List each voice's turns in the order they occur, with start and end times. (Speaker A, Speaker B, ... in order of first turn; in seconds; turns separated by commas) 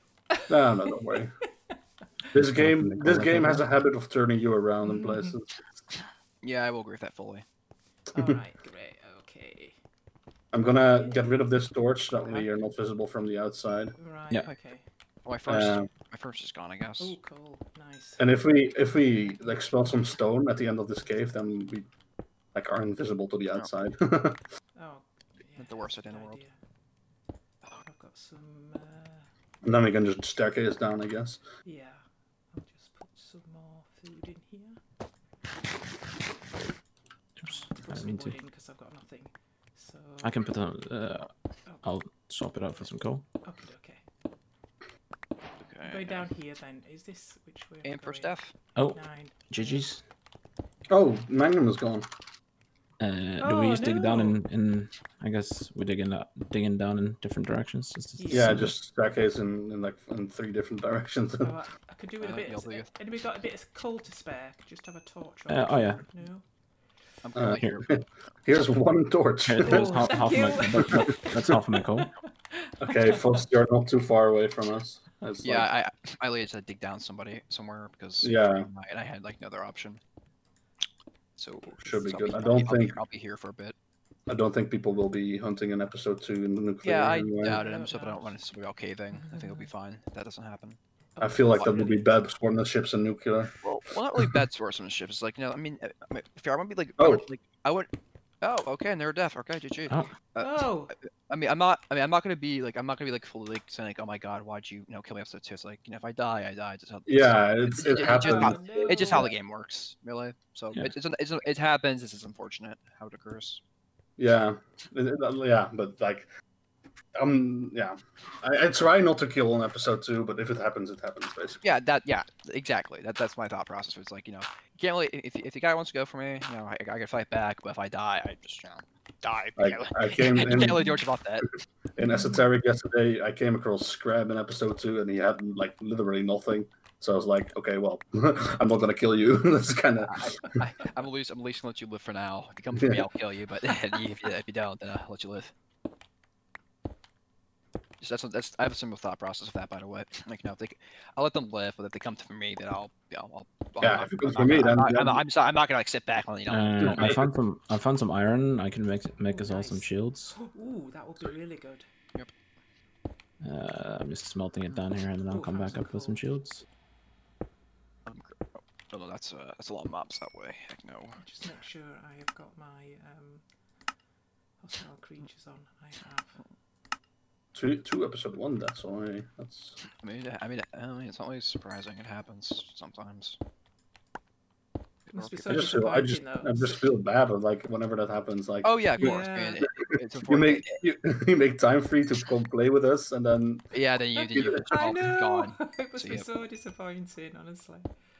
Speaker A: 0.3-1.5, Speaker B: 0.5-1.3, Speaker B: 2.3-5.7, Speaker C: 2.5-3.6, Speaker A: 4.8-5.3, Speaker D: 6.4-7.4, Speaker A: 8.1-9.8, Speaker B: 10.5-14.0, Speaker A: 10.9-11.2, Speaker A: 12.2-12.5, Speaker A: 14.0-14.8, Speaker D: 15.2-17.2, Speaker B: 15.4-15.9, Speaker A: 17.0-18.2, Speaker B: 18.2-21.9, Speaker B: 22.5-24.4, Speaker A: 24.7-26.6, Speaker D: 25.6-26.4, Speaker A: 27.8-29.3, Speaker B: 29.6-31.4, Speaker A: 31.6-34.8, Speaker C: 37.4-38.3, Speaker A: 37.4-40.4, Speaker C: 40.2-41.3, Speaker C: 41.8-43.2, Speaker A: 43.4-44.0, Speaker D: 45.6-46.3, Speaker A: 45.8-49.9, Speaker D: 47.8-48.5, Speaker C: 48.8-50.0, Speaker B: 50.9-52.1, Speaker C: 53.0-58.7, Speaker A: 53.4-54.4, Speaker A: 58.2-58.7, Speaker B: 58.3-61.5, Speaker A: 61.4-66.5, Speaker D: 62.2-62.9, Speaker C: 65.5-66.0, Speaker D: 67.2-68.3, Speaker B: 67.3-71.5, Speaker C: 69.4-72.1, Speaker A: 69.6-72.1, Speaker A: 72.6-73.3, Speaker B: 72.8-75.7, Speaker D: 75.4-80.0, Speaker B: 78.2-78.7, Speaker D: 81.3-83.7, Speaker B: 81.8-83.0, Speaker B: 84.3-87.6, Speaker D: 86.8-90.8, Speaker A: 87.4-88.4, Speaker A: 89.1-89.7, Speaker A: 91.2-91.9, Speaker B: 91.2-93.5, Speaker D: 91.5-92.0, Speaker D: 93.6-97.9, Speaker B: 97.0-97.2, Speaker D: 98.4-113.6, Speaker A: 100.4-100.9, Speaker B: 107.0-109.3, Speaker A: 107.9-109.3, Speaker B: 114.2-116.3, Speaker B: 117.1-121.6, Speaker D: 121.6-131.5, Speaker B: 129.6-130.8, Speaker A: 130.7-131.0, Speaker B: 132.0-140.5, Speaker A: 132.0-132.4, Speaker D: 140.0-145.5, Speaker B: 142.7-143.1, Speaker D: 148.0-157.2, Speaker B: 153.8-155.2, Speaker C: 156.5-160.3, Speaker B: 156.8-157.2, Speaker A: 159.3-161.9, Speaker C: 163.4-166.6, Speaker A: 165.3-166.2, Speaker D: 168.0-171.4, Speaker A: 171.2-173.4, Speaker A: 174.6-176.4, Speaker B: 177.5-179.8, Speaker D: 180.0-183.4, Speaker A: 185.1-186.8, Speaker D: 185.1-185.6, Speaker B: 185.5-193.8, Speaker D: 188.6-190.8, Speaker A: 189.0-189.7, Speaker D: 193.7-196.3, Speaker B: 194.3-194.7, Speaker A: 194.7-197.9